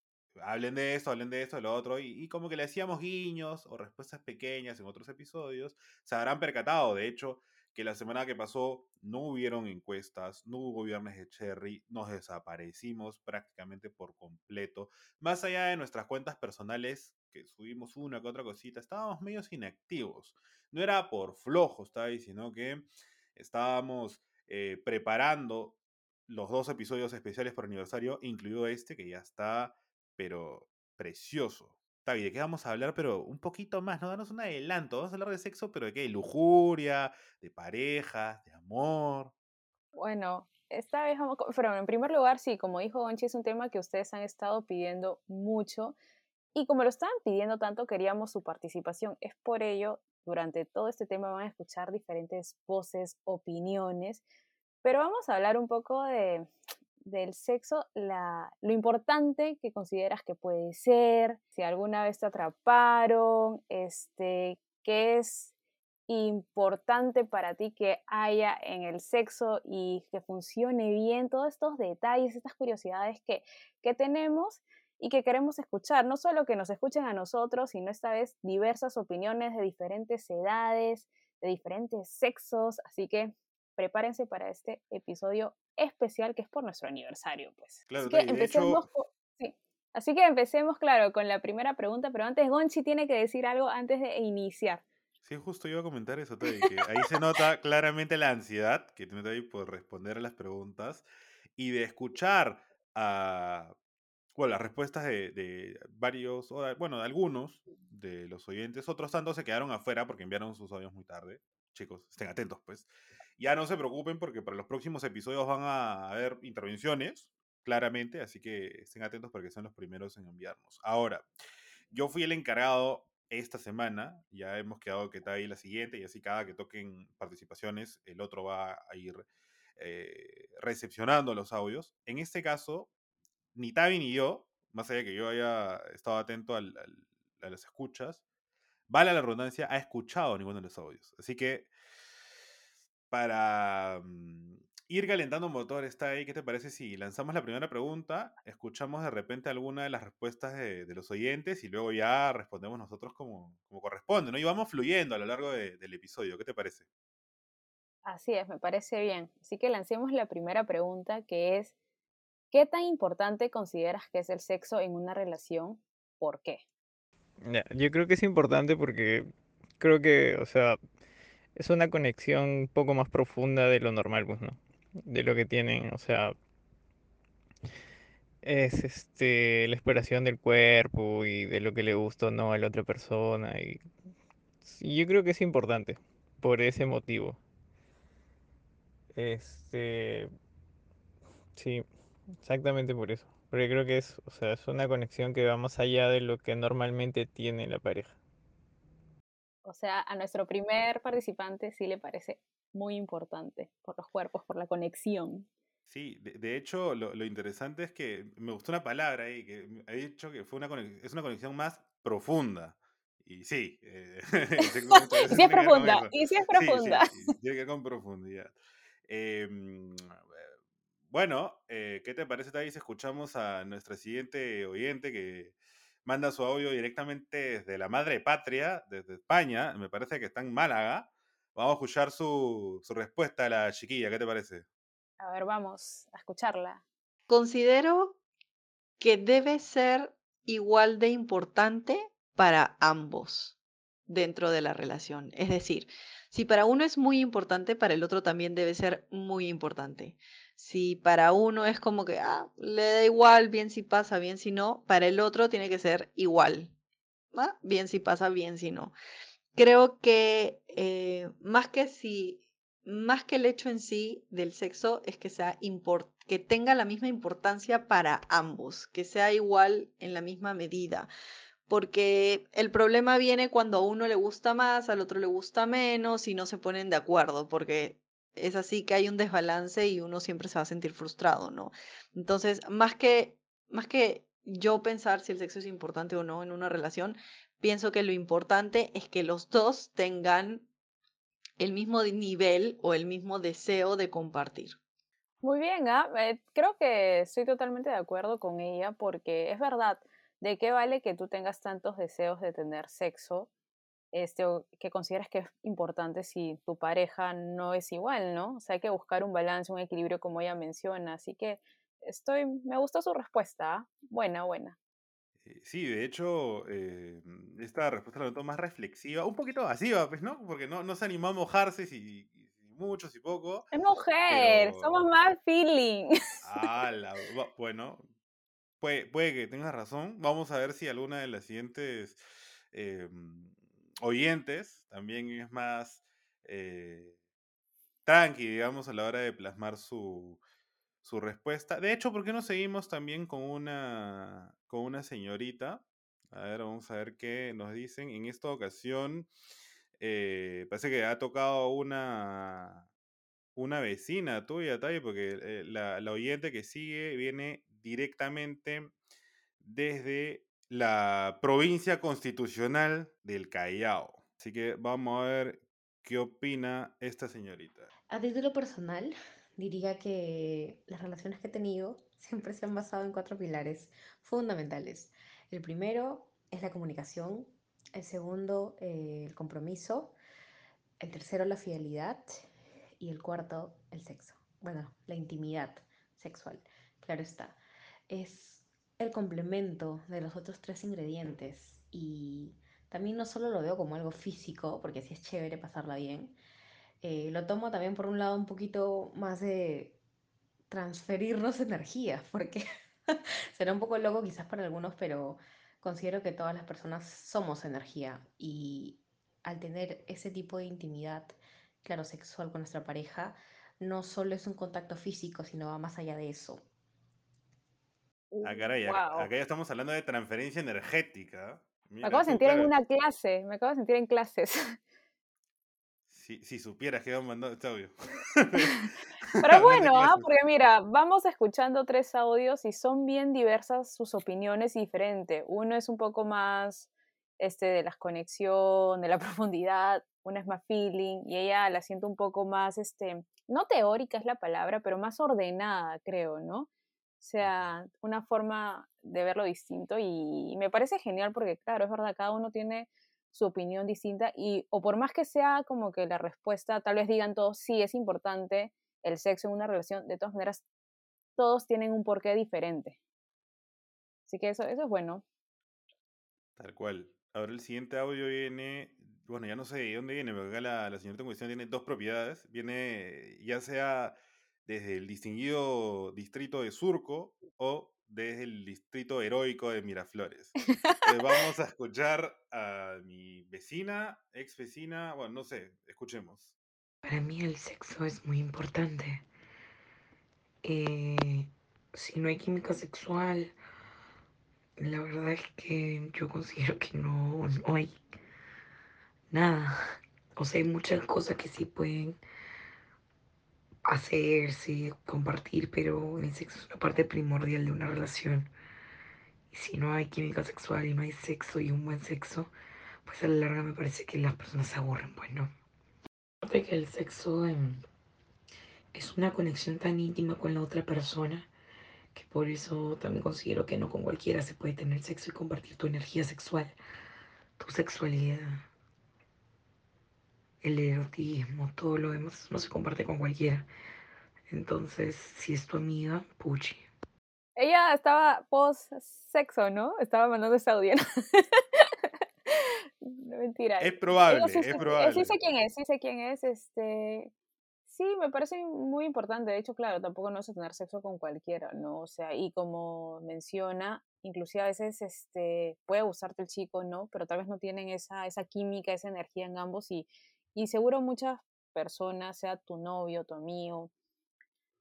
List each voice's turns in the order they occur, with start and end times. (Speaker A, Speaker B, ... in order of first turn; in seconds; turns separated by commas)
Speaker A: 0.4-22.9, Speaker A: 23.4-39.3, Speaker B: 40.0-46.0, Speaker B: 46.5-54.2, Speaker B: 54.8-56.5, Speaker B: 57.0-65.5, Speaker B: 66.1-94.8, Speaker A: 87.9-88.8, Speaker A: 95.2-103.8, Speaker A: 104.3-121.3, Speaker A: 121.9-129.2, Speaker A: 129.8-132.9, Speaker A: 133.6-138.2, Speaker A: 138.9-141.7, Speaker A: 143.1-156.9, Speaker B: 158.1-161.7, Speaker B: 162.5-166.6, Speaker C: 167.4-169.3, Speaker C: 169.8-170.8, Speaker C: 171.6-176.3, Speaker C: 178.4-183.8, Speaker C: 184.7-187.4, Speaker C: 189.2-190.3, Speaker C: 191.6-191.8, Speaker C: 192.4-198.2, Speaker B: 199.7-205.5, Speaker A: 205.9-218.5, Speaker B: 215.3-217.1, Speaker A: 219.1-220.5, Speaker A: 221.1-234.7, Speaker B: 235.2-236.8, Speaker D: 237.3-238.2, Speaker D: 239.0-243.6, Speaker D: 244.1-256.7, Speaker D: 257.3-258.9, Speaker D: 259.6-271.1, Speaker D: 271.7-290.7, Speaker D: 291.6-294.8, Speaker B: 295.4-303.5, Speaker B: 304.1-314.8, Speaker A: 315.4-323.7, Speaker B: 323.7-326.7, Speaker A: 324.3-325.1, Speaker A: 326.4-328.1, Speaker A: 328.8-337.2, Speaker A: 338.1-340.4, Speaker A: 341.0-349.3, Speaker A: 350.0-352.9, Speaker A: 353.6-358.9, Speaker A: 359.6-367.9, Speaker E: 368.1-380.2, Speaker E: 381.0-396.4, Speaker E: 397.0-400.0, Speaker E: 400.7-416.7, Speaker B: 418.3-419.3, Speaker A: 418.4-422.7, Speaker B: 422.0-424.8, Speaker A: 426.1-428.8, Speaker A: 429.3-430.2, Speaker B: 429.4-446.7, Speaker B: 447.2-460.6, Speaker B: 461.4-463.0, Speaker B: 464.3-465.2, Speaker A: 466.6-486.6, Speaker F: 487.0-489.3, Speaker F: 490.6-493.6, Speaker F: 494.8-498.0, Speaker F: 499.3-499.8, Speaker F: 500.4-502.2, Speaker F: 503.9-508.5, Speaker F: 509.5-512.5, Speaker F: 513.0-515.5, Speaker F: 516.4-517.8, Speaker F: 518.9-521.5, Speaker F: 522.1-526.8, Speaker F: 527.6-528.7, Speaker F: 530.6-533.7, Speaker F: 534.5-536.9, Speaker B: 537.6-541.9, Speaker B: 542.5-547.3, Speaker A: 543.8-545.4, Speaker B: 547.9-563.9